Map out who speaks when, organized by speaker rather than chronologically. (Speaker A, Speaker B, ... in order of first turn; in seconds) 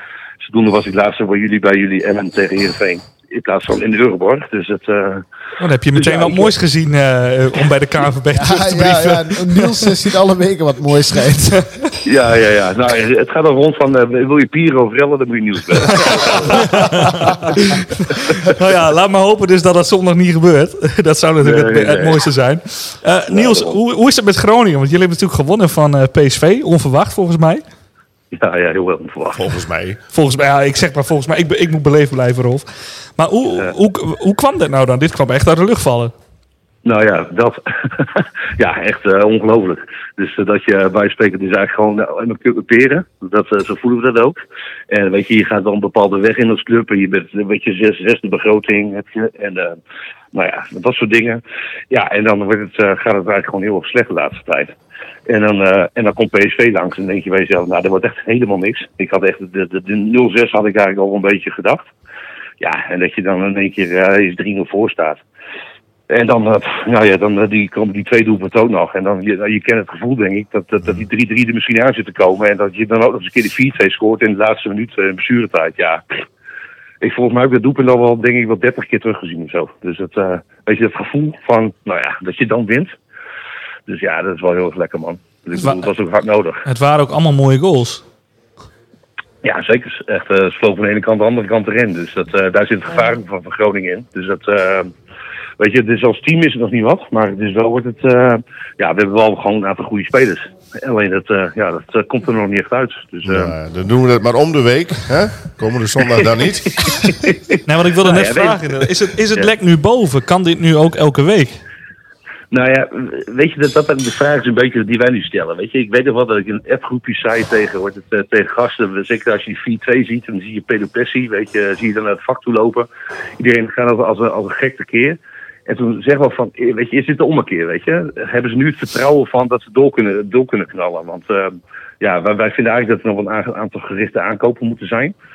Speaker A: 0.4-5.2, 5.9-6.5, 12.0-17.1, 21.4-22.2, 23.3-23.8, 28.3-29.5, 36.8-49.8, 50.3-54.7, 55.3-61.9, 62.6-65.2, 66.1-76.0, 77.0-82.9, 83.9-86.7, 89.4-94.9, 95.6-103.5, 106.8-109.5, 112.5-135.1
Speaker B: 5.6-9.9, 15.9-27.6, 30.1-32.6, 33.2-36.1, 85.5-85.9, 86.6-88.0, 107.6-111.6
Speaker C: 8.3-11.7
Speaker D: 29.3-30.0, 103.2-107.0